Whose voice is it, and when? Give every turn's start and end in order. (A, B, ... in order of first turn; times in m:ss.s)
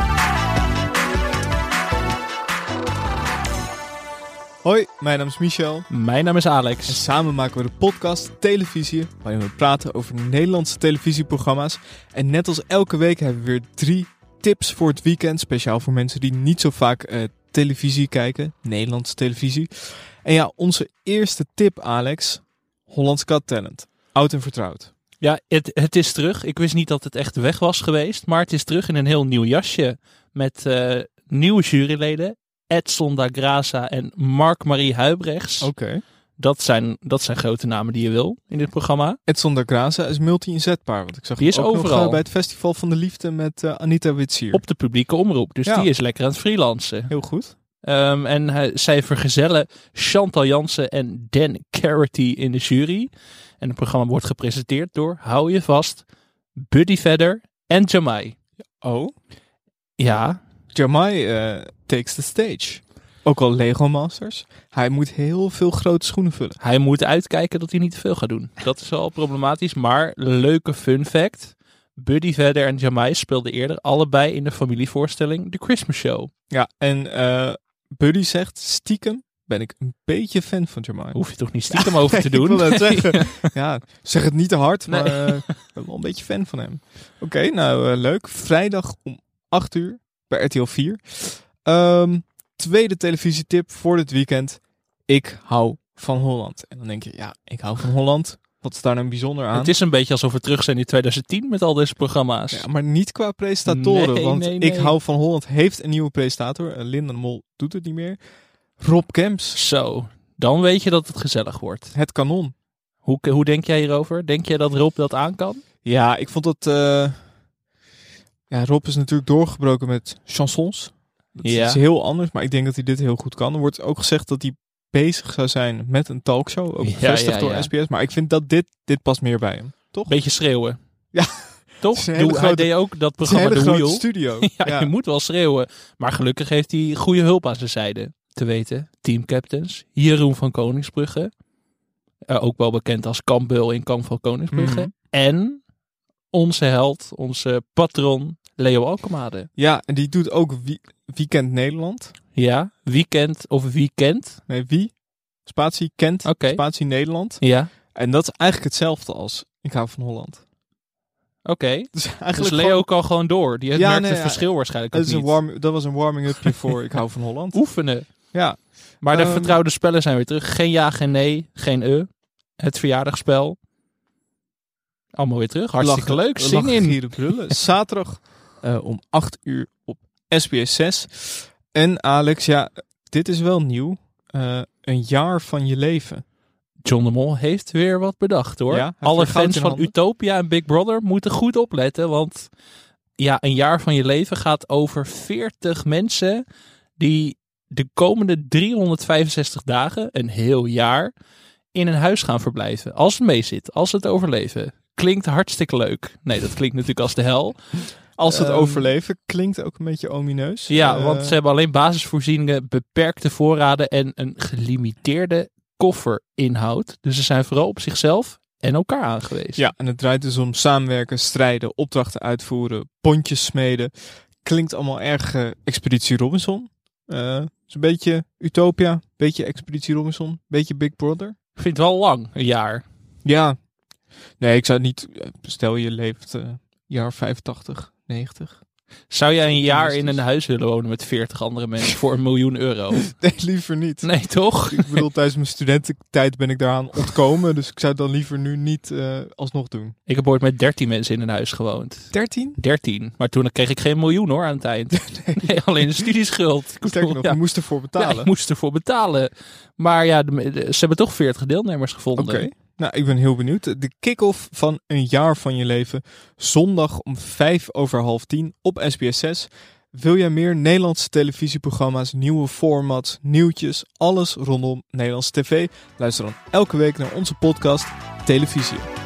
0:04.6-0:05.9 A
0:05.9-0:07.0 B
0:06.9-0:24.9 A
0:25.2-0:35.7 B
0:35.6-0:36.0 A
0:36.4-0:39.2 B
0:39.3-0:44.6 A
0:41.4-0:42.2 B
0:44.5-0:47.2 B
0:47.1-0:47.5 A
0:47.8-0:56.0 B
0:56.6-0:58.4 B
0:58.8-0:59.1 A
1:00.0-1:00.4 B
1:00.7-1:06.6 A
1:06.6-1:16.3 B
1:16.5-1:21.2 A
1:21.1-1:23.3 B
1:21.7-1:39.8 A
1:24.9-1:25.6 B
1:39.5-1:42.7 B
1:42.5-1:48.2 A
1:43.6-1:45.0 B
1:48.8-1:49.6 A
1:49.5-1:51.9 B
1:51.9-1:52.5 A
1:53.0-1:55.6 B
1:55.8-1:57.2 A
1:58.5-2:10.2 A
2:01.4-2:01.8 B
2:06.8-2:07.7 B
2:10.1-2:10.8 B
2:11.1-2:14.9 A
2:11.8-2:21.3 B
2:22.3-2:25.6 B
2:24.5-2:24.9 A
2:26.3-2:29.5 B
2:29.6-2:32.1 A
2:32.3-2:34.4 B
2:34.5-2:40.4 A
2:36.2-2:36.6 B
2:37.4-2:37.7 B
2:41.4-2:45.4 B
2:41.9-2:42.9 A
2:43.7-2:47.6 A
2:47.5-2:48.1 B
2:48.3-2:49.6 A
2:49.0-2:53.6 B
2:55.2-2:57.6 B
2:55.8-3:06.2 A
3:06.8-3:12.5 B
3:08.7-3:09.9 A
3:13.2-3:16.4 B
3:17.0-3:21.1 B
3:21.7-3:27.6 B
3:28.2-3:31.4 A
3:28.2-3:28.9 B
3:30.7-3:39.7 B
3:39.6-3:43.9 A
3:44.4-3:51.4 A
3:51.6-3:52.8 B
3:53.2-3:53.6 A
3:54.4-3:58.6 A
3:59.1-4:03.1 B
3:59.4-4:00.2 A
4:02.9-4:10.0 A
4:04.0-4:05.1 B
4:10.1-4:17.4 B
4:12.1-4:12.6 A
4:15.0-4:15.7 A
4:16.8-4:18.3 A
4:18.0-4:22.5 B
4:22.2-4:38.9 A